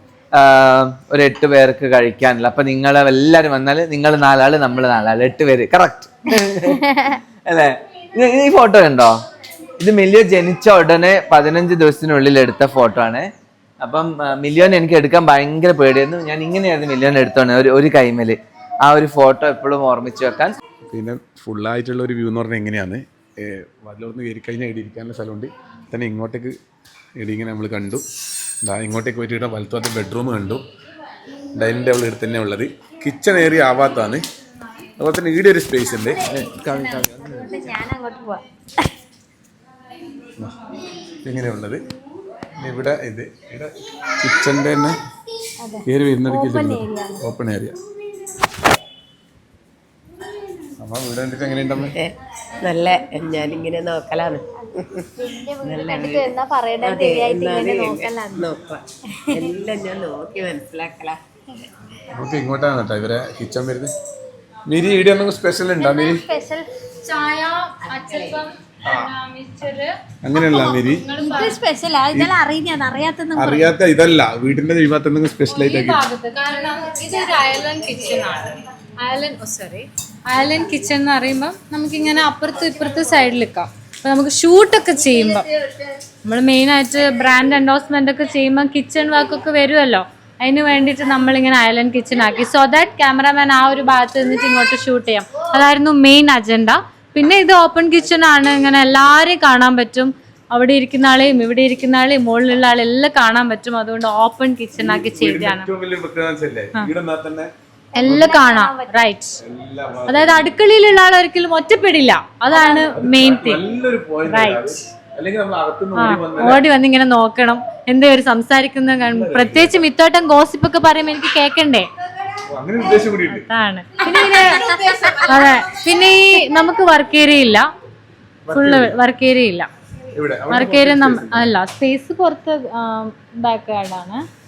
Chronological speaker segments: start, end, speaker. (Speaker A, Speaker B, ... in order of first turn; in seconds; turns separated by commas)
Speaker A: 0.3-6.9, Speaker B: 6.9-7.2, Speaker A: 7.5-9.2, Speaker A: 9.8-20.6, Speaker C: 20.9-26.6, Speaker C: 27.2-28.0, Speaker C: 28.6-30.6, Speaker C: 31.6-34.2, Speaker C: 35.0-37.5, Speaker B: 36.0-38.9, Speaker A: 36.3-37.4, Speaker C: 41.2-41.8, Speaker C: 42.6-45.0, Speaker B: 45.6-47.2, Speaker C: 45.9-47.8, Speaker C: 50.8-52.0, Speaker D: 51.8-55.0, Speaker B: 55.2-58.5, Speaker D: 55.6-61.2, Speaker B: 59.1-59.5, Speaker C: 62.1-63.9, Speaker C: 64.7-66.2, Speaker B: 65.8-66.7, Speaker E: 67.0-71.6, Speaker D: 67.9-68.5, Speaker C: 68.8-69.1, Speaker C: 70.2-71.0, Speaker B: 71.2-73.8, Speaker C: 73.3-76.0, Speaker E: 75.5-85.5, Speaker E: 86.2-105.7, Speaker C: 104.8-107.5, Speaker B: 107.9-109.0, Speaker E: 108.0-109.4, Speaker C: 109.4-110.5, Speaker E: 110.1-113.6, Speaker B: 112.5-112.9, Speaker C: 112.9-116.6, Speaker E: 114.3-114.8, Speaker E: 116.0-121.9, Speaker C: 119.0-119.8, Speaker C: 122.5-123.5, Speaker E: 123.3-127.7, Speaker B: 124.0-125.8, Speaker C: 128.4-129.0, Speaker E: 128.5-129.7, Speaker C: 130.1-131.5, Speaker E: 130.5-134.2